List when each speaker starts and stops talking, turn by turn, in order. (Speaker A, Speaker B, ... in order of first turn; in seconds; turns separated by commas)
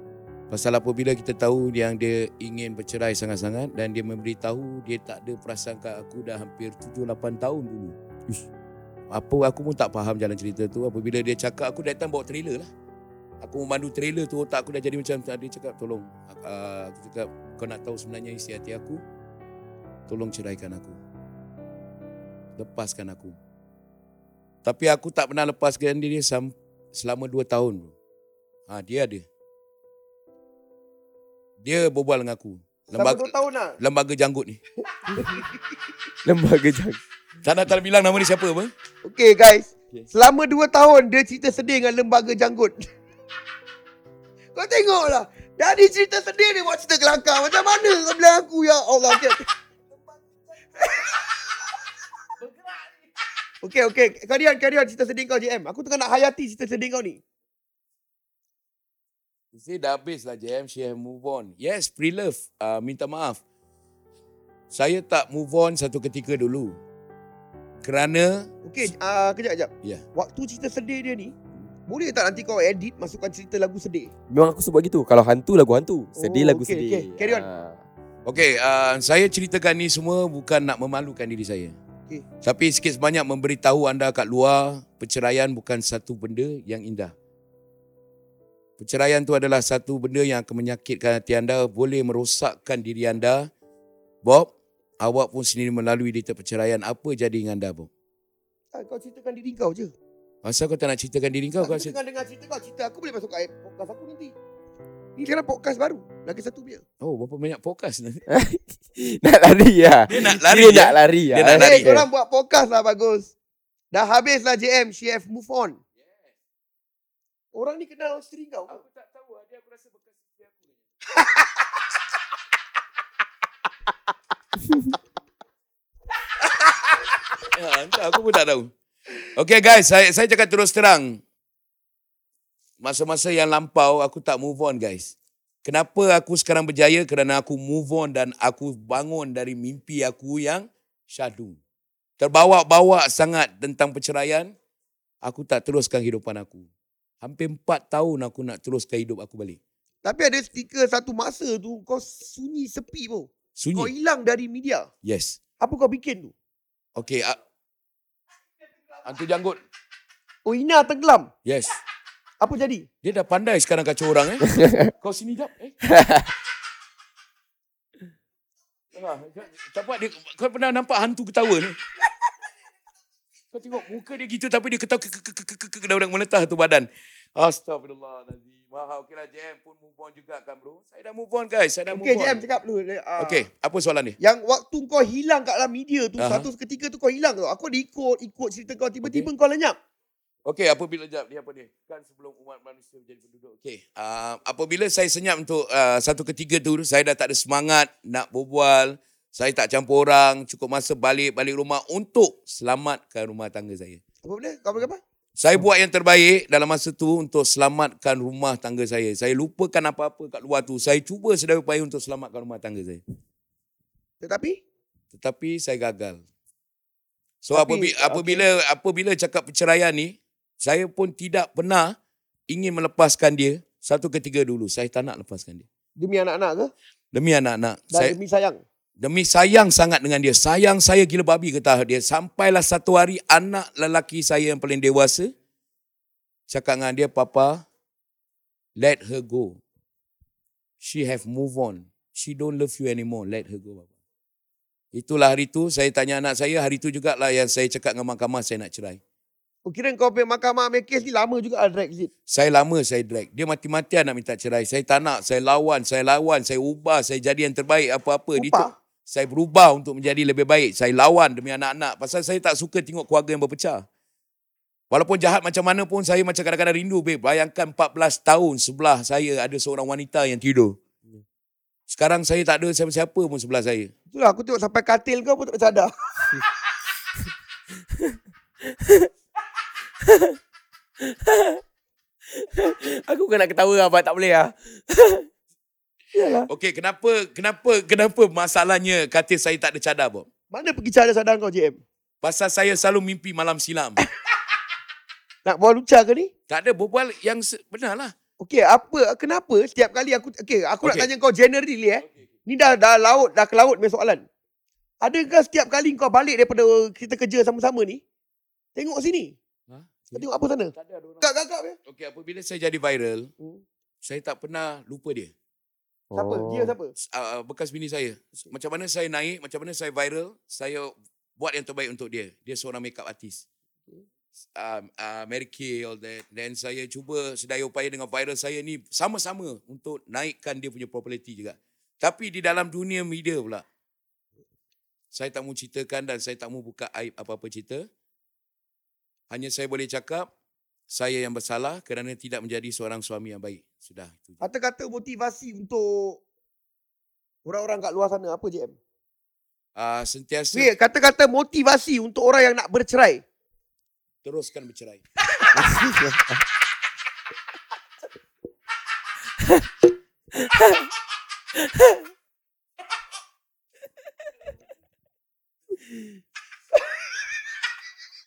Speaker A: 0.5-8.0, Speaker A: 9.1-12.7, Speaker A: 13.4-19.0, Speaker A: 20.1-21.0, Speaker A: 22.6-23.4, Speaker A: 24.6-27.9, Speaker A: 28.7-29.2, Speaker A: 31.6-34.6, Speaker B: 32.9-33.8, Speaker B: 34.9-35.8, Speaker C: 36.2-37.0, Speaker A: 37.4-38.7, Speaker B: 39.0-42.9, Speaker B: 44.5-49.5, Speaker B: 50.8-51.3, Speaker B: 53.6-57.2, Speaker A: 59.5-63.4, Speaker A: 64.7-66.8, Speaker A: 67.8-68.5, Speaker B: 68.7-71.4, Speaker B: 71.9-74.1, Speaker C: 74.3-77.8, Speaker B: 76.2-77.5, Speaker A: 78.3-81.8, Speaker A: 82.4-87.1, Speaker A: 88.8-93.5, Speaker A: 94.2-97.9, Speaker B: 98.7-99.9, Speaker A: 100.4-102.0, Speaker B: 101.6-104.3, Speaker B: 105.2-106.8, Speaker A: 107.0-108.2, Speaker C: 108.3-112.1, Speaker A: 110.1-112.0, Speaker B: 111.5-113.3, Speaker B: 113.9-115.8, Speaker A: 116.0-116.3, Speaker B: 117.5-118.8, Speaker A: 118.7-120.8, Speaker B: 121.2-121.7, Speaker A: 127.5-128.7, Speaker A: 129.3-131.2, Speaker A: 132.8-141.6, Speaker A: 142.2-144.5, Speaker A: 145.2-146.7, Speaker A: 147.2-149.6, Speaker B: 150.0-154.9, Speaker A: 153.6-153.9, Speaker A: 155.0-155.4, Speaker B: 155.6-156.3, Speaker A: 157.0-157.4, Speaker A: 159.0-159.6, Speaker B: 160.4-161.3, Speaker A: 161.4-161.8, Speaker B: 162.4-162.9, Speaker A: 163.0-165.8, Speaker C: 164.5-164.9, Speaker C: 165.8-166.3, Speaker A: 168.9-171.8, Speaker A: 173.5-182.4, Speaker B: 181.9-183.4, Speaker A: 183.2-184.2, Speaker B: 184.2-189.8, Speaker A: 186.2-186.5, Speaker A: 189.0-189.3, Speaker A: 190.4-204.0, Speaker B: 204.2-205.0, Speaker A: 205.4-213.0, Speaker B: 214.2-214.6, Speaker A: 215.1-216.2, Speaker A: 217.4-221.9, Speaker B: 217.5-218.4, Speaker A: 222.5-225.7, Speaker B: 226.0-226.7, Speaker A: 227.1-228.2, Speaker B: 227.9-228.6, Speaker A: 229.0-235.3, Speaker A: 236.5-237.6, Speaker A: 238.8-239.6, Speaker A: 240.8-243.9, Speaker A: 244.9-249.0, Speaker B: 249.7-252.1, Speaker A: 252.3-263.8, Speaker B: 258.4-258.7, Speaker A: 264.9-270.8, Speaker A: 271.9-273.9, Speaker B: 274.1-276.4, Speaker C: 277.9-279.1, Speaker C: 280.0-280.4, Speaker C: 281.0-281.6, Speaker C: 282.3-285.3, Speaker C: 286.1-286.5, Speaker A: 286.5-290.3, Speaker B: 290.5-291.8, Speaker A: 292.2-294.1, Speaker B: 295.4-296.3, Speaker A: 296.5-298.1, Speaker B: 298.4-304.3, Speaker A: 300.8-301.1, Speaker A: 302.0-302.3, Speaker B: 305.0-308.0, Speaker B: 308.8-309.4, Speaker A: 309.7-311.2, Speaker B: 310.1-311.8, Speaker A: 311.9-313.3, Speaker A: 314.0-315.3, Speaker C: 316.1-316.8, Speaker B: 316.1-316.9, Speaker A: 317.0-323.4, Speaker A: 324.6-333.6, Speaker A: 335.1-337.9, Speaker A: 339.3-340.3, Speaker A: 340.9-344.4, Speaker B: 344.4-346.2, Speaker B: 347.4-348.8, Speaker A: 349.8-350.7, Speaker B: 350.5-353.2, Speaker A: 354.2-355.0, Speaker C: 355.6-356.4, Speaker C: 359.4-359.7, Speaker C: 360.3-360.9, Speaker C: 361.6-362.1